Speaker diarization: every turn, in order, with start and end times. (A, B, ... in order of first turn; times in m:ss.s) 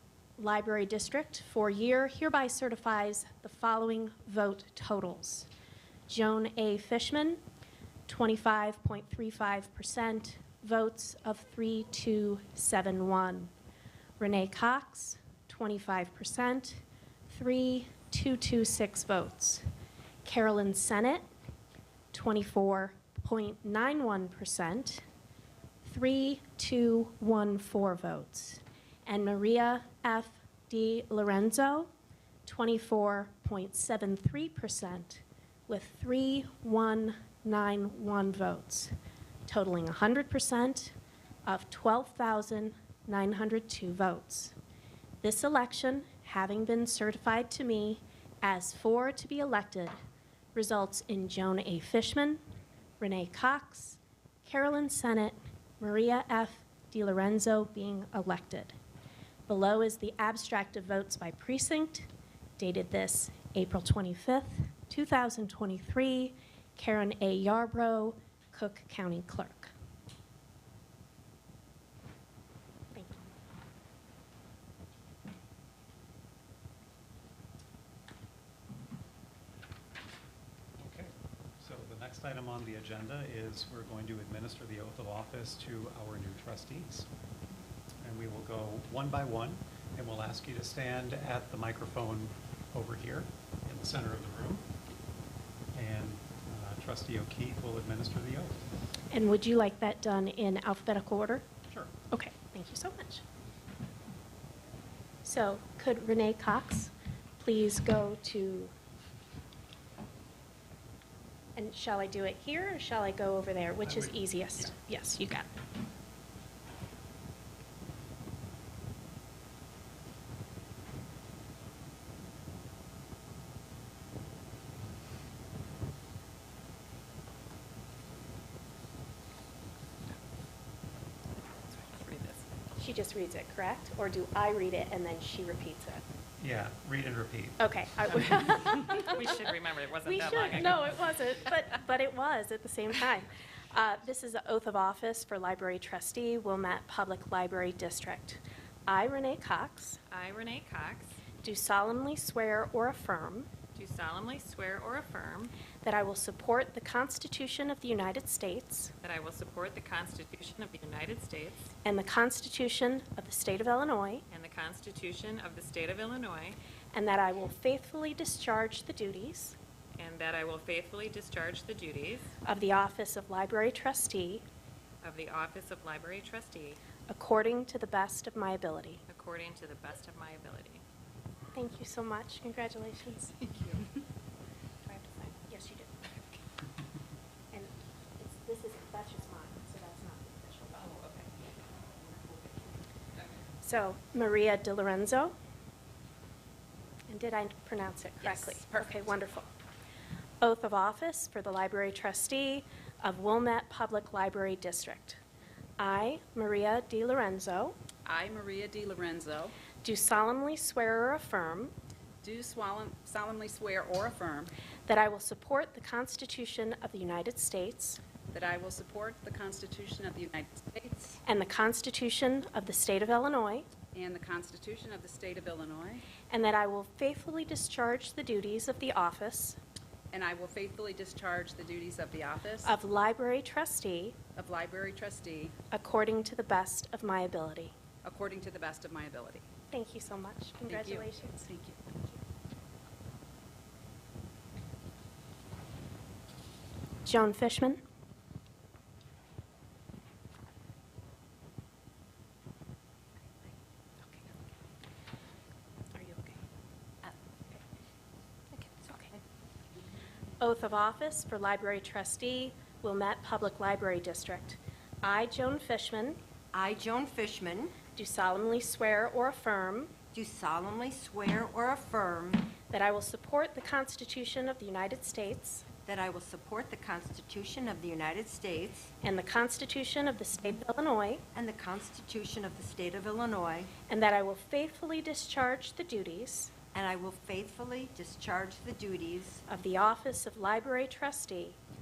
0:00.4-0:05.5 A
0:06.1-0:07.4 A
0:08.1-0:13.5 A
0:14.2-0:19.6 A
0:20.2-0:21.2 A
0:22.1-0:25.0 A
0:25.8-0:31.9 A
0:32.4-0:38.9 A
0:39.5-0:40.9 A
0:41.4-0:44.5 A
0:45.2-0:49.9 A
0:50.5-0:52.4 A
0:53.0-0:58.8 A
0:59.5-1:09.7 A
1:12.9-1:13.3 A
1:20.8-1:27.1 B
1:28.0-1:34.6 B
1:35.7-1:38.6 B
1:39.1-1:41.4 A
1:42.1-1:43.2 A
1:45.2-1:48.7 A
1:51.6-1:55.5 A
1:53.8-1:54.7 B
2:11.3-2:12.5 C
2:12.8-2:16.0 A
2:16.4-2:18.5 B
2:17.6-2:19.3 A
2:18.9-2:21.0 C
2:20.0-2:30.0 A
2:30.1-2:31.2 C
2:31.4-2:33.5 A
2:33.7-2:35.5 C
2:35.8-2:38.9 A
2:39.0-2:41.7 C
2:41.8-2:44.2 A
2:44.3-2:46.6 C
2:46.9-2:49.6 A
2:50.0-2:52.3 C
2:52.4-2:54.4 A
2:55.0-2:56.8 C
2:57.1-2:59.0 A
2:59.1-3:00.8 C
3:01.5-3:03.7 A
3:04.8-3:06.1 A
3:07.5-3:11.1 A
3:13.6-3:15.3 A
3:17.1-3:19.5 A
3:18.2-3:18.8 D
3:20.4-3:25.2 A
3:25.8-3:27.8 A
3:28.0-3:29.5 D
3:29.8-3:31.7 A
3:32.2-3:34.5 D
3:34.9-3:38.0 A
3:38.3-3:41.2 D
3:41.2-3:43.7 A
3:43.9-3:46.0 D
3:46.3-3:49.6 A
3:50.1-3:52.7 D
3:52.6-3:54.2 A
3:54.4-3:55.5 D
3:55.7-3:57.7 A
3:58.0-3:59.5 D
3:59.7-4:01.5 A
4:00.7-4:01.8 D
4:07.0-4:07.8 A
4:15.9-4:16.4 A
4:18.6-4:19.1 A
4:20.4-4:26.2 A
4:26.5-4:27.8 E
4:27.9-4:29.9 A
4:30.1-4:32.5 E
4:32.7-4:35.7 A
4:35.8-4:38.9 E
4:39.0-4:41.2 A
4:41.3-4:43.7 E
4:43.9-4:46.5 A
4:46.7-4:49.4 E
4:49.5-4:51.6 A